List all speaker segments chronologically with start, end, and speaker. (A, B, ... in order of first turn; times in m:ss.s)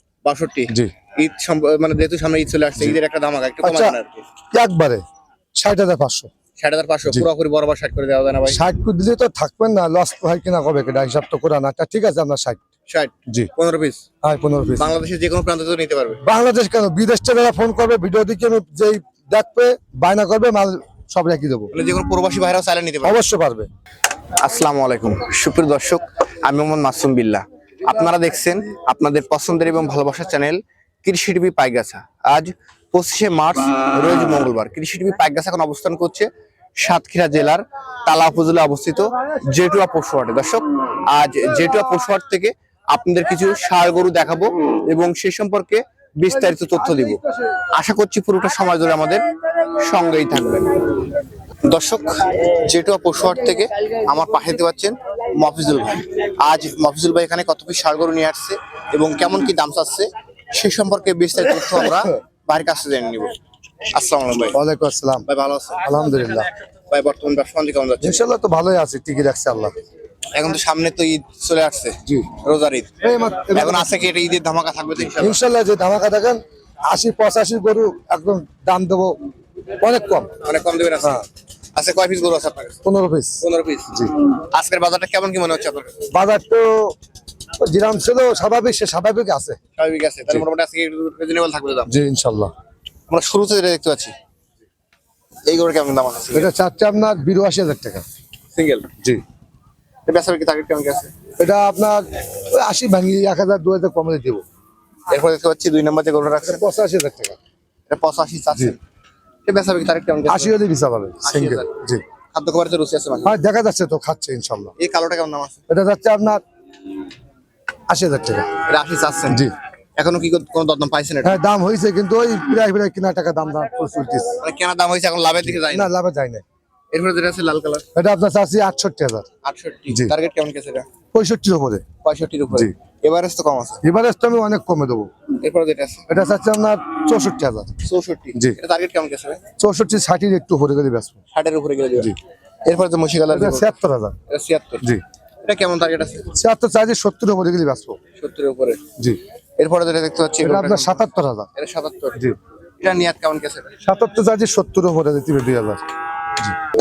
0:00.2-0:04.3 A
0:03.6-0:04.0 B
0:04.5-0:05.0 B
0:05.6-0:06.3 B
0:06.6-0:08.6 A
0:08.5-0:12.6 B
0:12.9-0:14.0 A
0:14.2-0:15.0 B
0:14.8-0:16.2 A
0:16.2-0:21.7 B
0:21.7-0:23.2 A
0:23.0-0:23.7 B
0:24.4-0:47.2 A
0:47.7-0:51.0 A
0:51.7-1:03.4 A
1:03.9-1:04.6 A
1:04.5-1:05.3 B
1:05.3-1:05.9 A
1:05.8-1:06.5 B
1:06.9-1:08.3 A
1:08.0-1:09.7 B
1:10.3-1:12.9 A
1:12.1-1:12.3 B
1:13.0-1:13.9 B
1:13.5-1:15.4 A
1:15.2-1:19.2 B
1:19.8-1:20.3 B
1:20.4-1:21.2 A
1:21.8-1:22.8 A
1:22.8-1:24.2 B
1:23.4-1:23.9 A
1:24.5-1:26.0 A
1:26.1-1:27.0 B
1:27.6-1:29.6 B
1:29.8-1:31.9 A
1:31.9-1:32.5 B
1:33.1-1:34.1 A
1:35.5-1:36.5 A
1:36.3-1:38.0 B
1:38.5-1:38.9 A
1:40.1-1:41.1 A
1:41.4-1:44.4 B
1:45.1-1:46.6 A
1:46.5-1:47.4 B
1:47.9-1:48.8 A
1:49.4-1:50.6 A
1:50.3-1:52.0 B
1:51.2-1:51.7 A
1:52.3-1:53.4 A
1:53.2-1:54.8 B
1:54.8-1:55.6 A
1:55.7-1:56.4 B
1:57.9-1:58.6 B
1:58.6-2:01.4 A
2:01.2-2:04.4 B
2:04.4-2:05.9 A
2:05.4-2:06.4 B
2:06.9-2:07.8 A
2:08.0-2:09.3 B
2:09.4-2:10.9 A
2:11.1-2:11.8 B
2:12.0-2:13.8 A
2:13.8-2:15.1 B
2:15.4-2:16.1 A
2:16.1-2:17.7 B
2:17.8-2:19.4 A
2:19.6-2:21.2 B
2:21.3-2:23.7 A
2:23.3-2:24.2 B
2:24.3-2:24.8 A
2:25.4-2:26.3 A
2:26.3-2:28.0 B
2:28.2-2:28.8 A
2:29.6-2:32.2 A
2:30.4-2:31.5 B
2:32.8-2:33.7 A
2:33.8-2:35.8 B